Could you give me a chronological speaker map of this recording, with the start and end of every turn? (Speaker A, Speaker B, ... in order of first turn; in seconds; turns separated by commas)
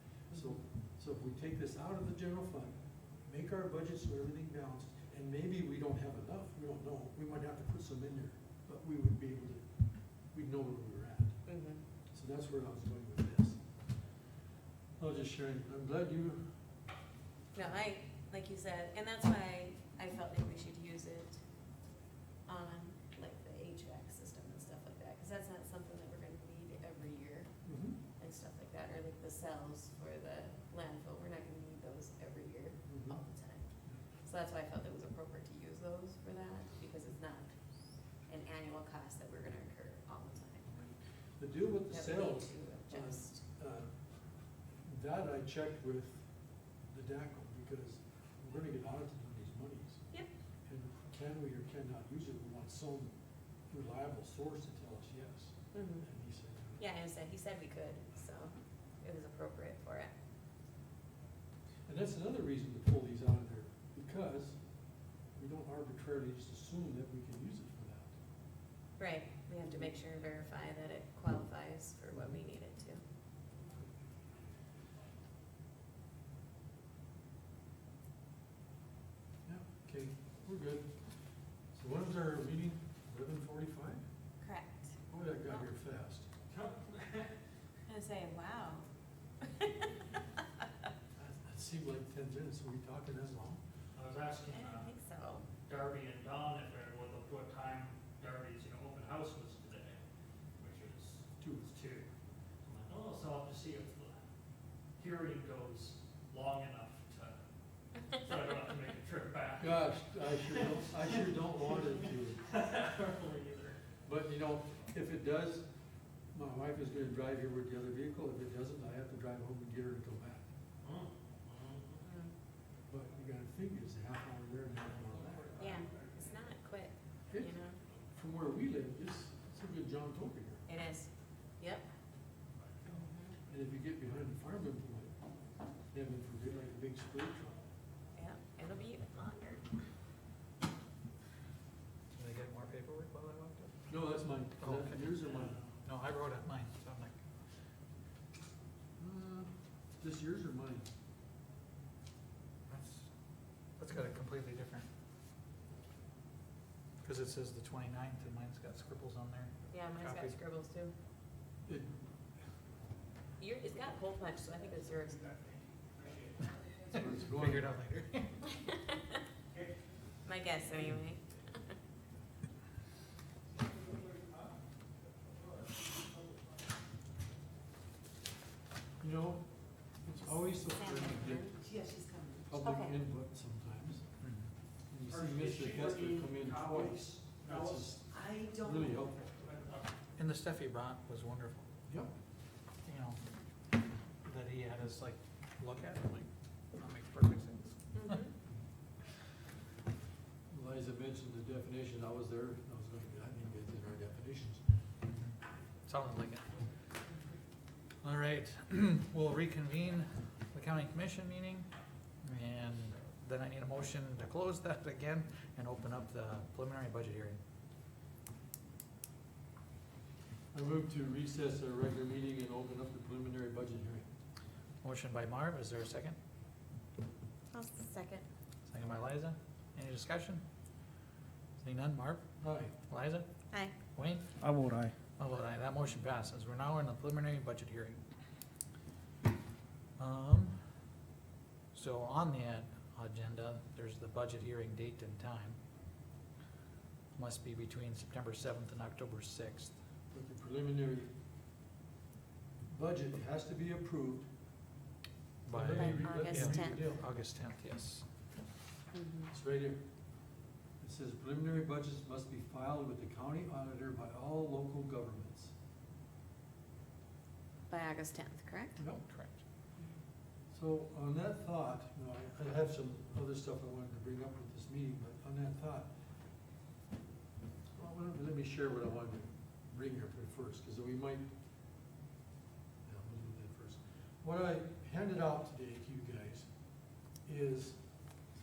Speaker A: 0.3-2.7, Speaker A: 3.3-9.7, Speaker A: 10.3-11.4, Speaker B: 11.4-11.8, Speaker A: 12.1-13.6, Speaker A: 15.0-16.4, Speaker B: 17.5-21.4, Speaker B: 22.5-33.7, Speaker A: 27.6-28.0, Speaker A: 32.9-33.2, Speaker B: 34.2-37.5, Speaker B: 38.3-40.9, Speaker A: 41.4-43.9, Speaker B: 41.9-43.4, Speaker A: 44.8-46.3, Speaker A: 46.9-50.0, Speaker A: 50.7-53.1, Speaker A: 53.7-56.8, Speaker B: 55.7-56.0, Speaker B: 56.8-60.1, Speaker A: 61.9-64.6, Speaker A: 65.4-68.1, Speaker B: 69.0-73.0, Speaker A: 72.1-72.4, Speaker A: 79.5-80.9, Speaker A: 81.7-84.0, Speaker B: 84.4-84.9, Speaker A: 85.1-86.3, Speaker C: 86.5-87.3, Speaker B: 87.9-88.9, Speaker B: 89.4-89.9, Speaker A: 91.2-93.6, Speaker C: 93.9-94.9, Speaker B: 94.5-95.5, Speaker C: 95.6-100.0, Speaker C: 100.6-102.1, Speaker A: 101.4-101.7, Speaker C: 102.6-104.2, Speaker C: 105.0-107.4, Speaker C: 108.0-111.0, Speaker A: 109.6-112.4, Speaker C: 112.4-113.8, Speaker A: 114.0-115.7, Speaker A: 116.3-120.5, Speaker C: 120.8-122.0, Speaker B: 122.0-122.3, Speaker A: 122.9-125.7, Speaker B: 125.6-127.8, Speaker C: 125.6-126.0, Speaker A: 127.3-127.5, Speaker A: 128.1-130.7, Speaker B: 130.7-131.8, Speaker B: 132.8-133.3, Speaker A: 133.5-135.1, Speaker A: 135.9-137.6, Speaker B: 138.2-139.6, Speaker D: 142.2-143.8, Speaker A: 143.9-145.6, Speaker D: 144.6-147.2, Speaker A: 149.0-150.9, Speaker D: 152.7-153.1, Speaker D: 153.8-154.9, Speaker D: 157.0-160.4, Speaker B: 159.7-160.9, Speaker A: 161.7-161.9, Speaker B: 163.4-165.4, Speaker A: 166.9-167.7, Speaker D: 167.2-168.5, Speaker B: 168.6-168.9, Speaker B: 170.2-171.7, Speaker A: 179.0-179.5, Speaker A: 180.0-181.6, Speaker B: 180.7-182.9, Speaker A: 182.5-184.0, Speaker D: 184.2-184.5, Speaker A: 184.9-189.4, Speaker C: 185.1-187.9, Speaker C: 189.4-189.9, Speaker D: 190.2-191.7, Speaker D: 192.8-193.2, Speaker D: 194.2-198.2, Speaker B: 197.9-198.3, Speaker A: 200.5-204.7, Speaker D: 205.1-206.7, Speaker D: 208.0-211.7, Speaker D: 212.2-217.4, Speaker A: 220.5-224.1, Speaker D: 224.8-226.2, Speaker B: 227.5-228.2, Speaker D: 228.7-230.4, Speaker D: 231.6-233.3, Speaker A: 232.4-232.7, Speaker D: 233.9-234.5, Speaker D: 235.2-238.0, Speaker D: 240.0-240.6, Speaker D: 241.7-245.6, Speaker D: 247.2-249.8, Speaker A: 250.1-251.1, Speaker A: 252.7-254.3, Speaker A: 255.4-257.0, Speaker D: 255.4-258.0, Speaker B: 255.7-256.8, Speaker B: 258.9-259.3, Speaker A: 259.3-259.8, Speaker A: 260.8-265.5, Speaker B: 267.7-268.8, Speaker A: 268.8-269.0, Speaker D: 269.1-269.4, Speaker A: 270.5-275.9, Speaker A: 277.8-281.2, Speaker A: 282.8-286.5, Speaker A: 287.2-287.8